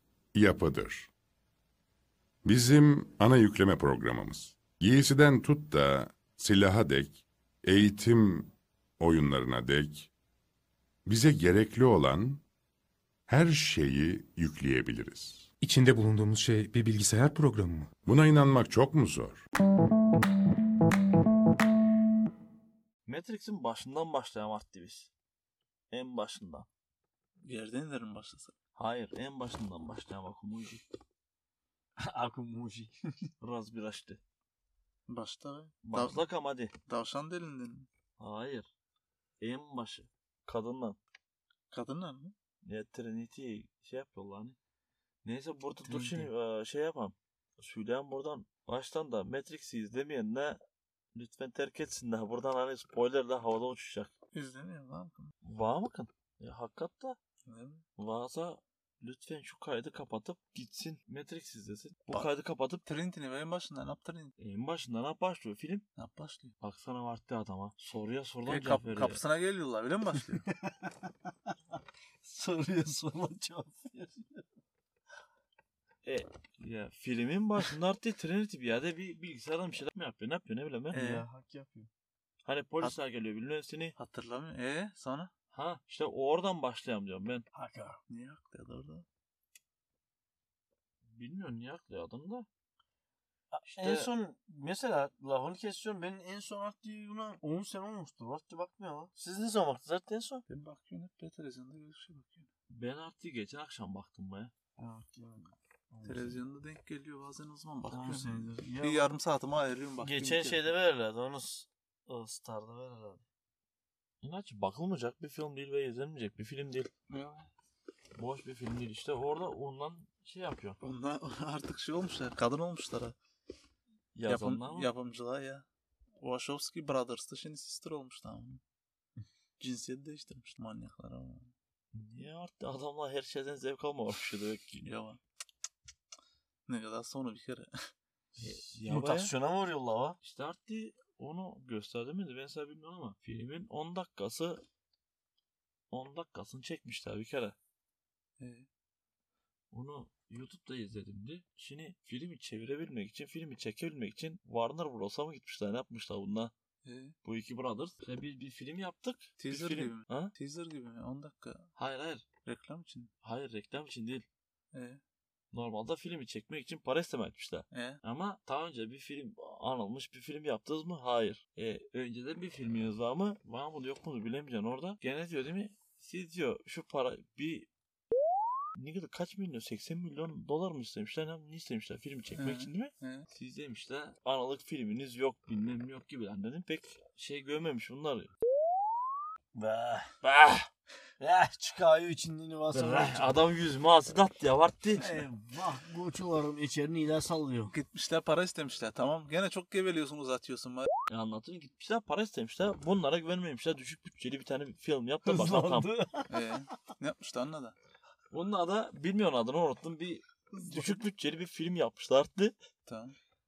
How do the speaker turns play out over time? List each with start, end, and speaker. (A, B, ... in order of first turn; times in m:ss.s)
0:00.3-0:01.1 A
0:02.4-0:10.1 A
0:11.1-0:12.4 A
0:13.3-0:15.5 A
0:15.6-0:17.9 B
0:18.0-0:19.4 A
0:23.1-0:25.1 C
0:25.9-0:26.7 C
0:27.4-0:28.5 D
0:28.8-0:30.8 C
0:32.0-0:33.0 E
0:33.4-0:34.2 C
0:35.1-0:36.3 D
0:35.8-0:36.7 C
0:36.9-0:37.9 D
0:38.2-0:38.7 C
0:39.4-0:41.0 C
0:41.7-0:42.4 D
0:42.6-0:44.6 C
0:45.2-0:50.6 C
0:45.8-0:46.3 D
0:51.2-0:54.1 C
0:54.3-0:55.3 D
0:55.4-0:57.2 C
0:57.5-0:57.8 D
0:58.0-1:02.8 C
1:02.8-1:04.3 D
1:04.4-1:05.8 C
1:06.0-1:06.5 D
1:06.6-1:09.2 C
1:08.4-1:10.5 D
1:12.2-1:14.4 E
1:16.0-1:21.1 C
1:20.9-1:21.3 D
1:20.9-1:21.9 E
1:22.4-1:24.0 C
1:24.0-1:25.3 D
1:25.5-1:27.4 C
1:27.5-1:28.0 E
1:28.1-1:29.1 D
1:31.0-1:32.5 C
1:33.6-1:40.4 E
1:33.6-1:34.1 C
1:40.5-1:42.5 D
1:42.7-1:44.5 C
1:44.8-1:46.4 E
1:46.0-1:50.7 D
1:47.9-1:49.1 E
1:50.0-1:51.0 C
1:51.0-1:53.2 E
1:54.2-1:56.9 C
1:57.1-1:57.5 D
1:58.2-2:00.8 C
2:00.8-2:03.2 D
2:04.1-2:04.9 C
2:04.2-2:05.7 D
2:06.2-2:08.6 D
2:09.6-2:11.5 D
2:11.9-2:14.9 C
2:14.8-2:15.2 D
2:16.7-2:17.7 D
2:18.4-2:20.2 E
2:18.4-2:19.3 C
2:20.2-2:24.6 C
2:25.9-2:27.6 C
2:28.4-2:28.7 D
2:29.7-2:36.5 C
2:36.8-2:37.2 D
2:37.2-2:40.3 C
2:39.4-2:41.7 D
2:41.8-2:42.2 C
2:42.4-2:43.1 D
2:43.2-2:44.3 C
2:44.7-2:45.0 D
2:45.5-2:57.7 C
2:47.7-2:48.0 D
2:58.8-3:08.3 C
3:02.4-3:03.3 D
3:09.5-3:10.1 E
3:10.2-3:10.7 C
3:11.2-3:13.4 E
3:12.7-3:15.1 C
3:15.0-3:17.7 E
3:17.7-3:20.9 D
3:21.1-3:25.9 C
3:25.3-3:26.3 E
3:26.3-3:27.8 D
3:28.3-3:32.6 C
3:30.5-3:31.0 D
3:32.8-3:33.2 D